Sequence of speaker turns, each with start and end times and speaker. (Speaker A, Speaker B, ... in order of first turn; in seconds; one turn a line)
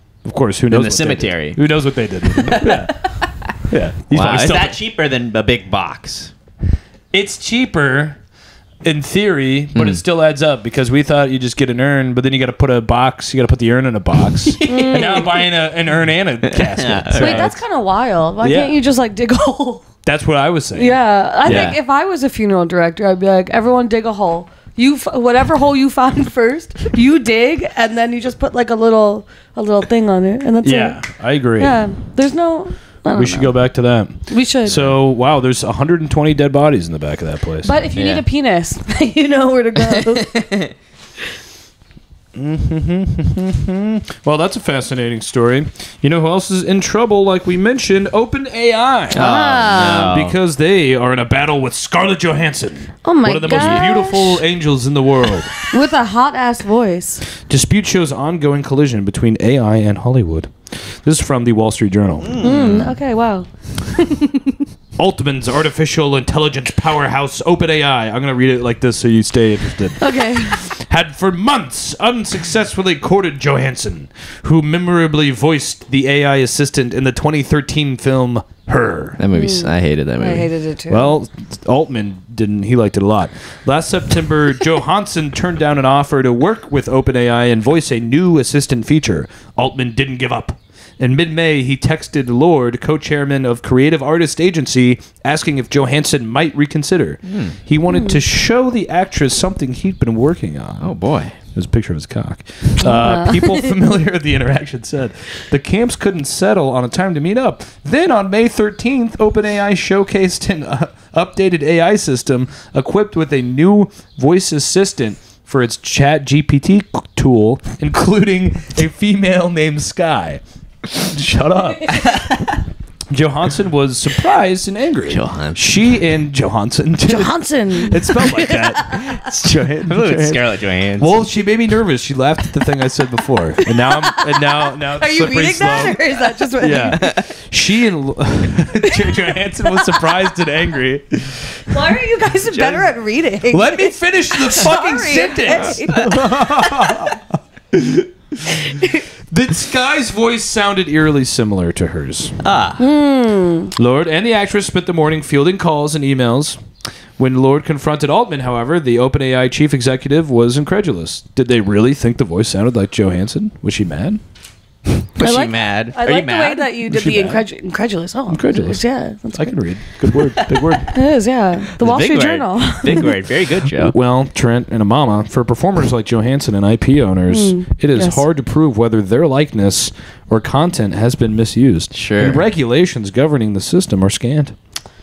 Speaker A: 0.2-4.8
Speaker B: 0.7-1.6
Speaker B: 2.2-3.4
Speaker B: 4.1-6.3
Speaker A: 7.1-8.2
Speaker A: 8.8-17.6
Speaker B: 9.7-10.0
Speaker B: 14.4-15.4
Speaker C: 14.6-15.4
Speaker B: 16.5-17.5
Speaker C: 17.1-19.9
Speaker A: 18.4-18.8
Speaker A: 20.0-20.9
Speaker C: 20.8-31.0
Speaker B: 21.4-21.8
Speaker A: 30.6-31.8
Speaker C: 31.6-33.6
Speaker A: 33.1-37.8
Speaker C: 34.3-34.9
Speaker C: 37.6-40.4
Speaker B: 38.0-38.2
Speaker B: 40.1-40.7
Speaker A: 42.4-55.5
Speaker C: 49.1-50.1
Speaker B: 49.1-50.4
Speaker C: 53.0-54.4
Speaker B: 53.5-53.8
Speaker C: 55.7-57.2
Speaker A: 57.4-62.5
Speaker B: 62.2-62.9
Speaker C: 62.4-64.6
Speaker A: 65.0-79.2
Speaker C: 70.0-70.7
Speaker B: 79.2-80.5
Speaker C: 79.3-81.1
Speaker A: 80.9-122.0
Speaker B: 97.2-97.5
Speaker C: 97.9-98.2
Speaker B: 100.8-101.3
Speaker C: 102.8-103.7
Speaker B: 122.0-122.5
Speaker A: 123.1-130.4
Speaker B: 125.1-125.6
Speaker C: 127.0-129.0
Speaker B: 129.3-131.2
Speaker A: 131.0-141.8
Speaker C: 133.8-137.0
Speaker B: 137.0-137.3
Speaker C: 138.8-139.9
Speaker C: 141.7-147.0
Speaker B: 142.5-142.8
Speaker A: 143.5-147.2
Speaker B: 145.9-146.3
Speaker A: 147.7-152.4
Speaker C: 148.6-149.0
Speaker B: 152.4-152.8
Speaker C: 152.8-153.7
Speaker A: 153.8-156.6
Speaker A: 157.2-164.2
Speaker B: 165.0-166.7
Speaker C: 165.2-169.6
Speaker A: 166.8-167.4
Speaker A: 168.3-170.9
Speaker B: 170.1-170.8
Speaker C: 170.9-173.1
Speaker B: 171.8-173.9
Speaker A: 173.8-184.6
Speaker C: 177.3-178.2
Speaker B: 181.9-182.4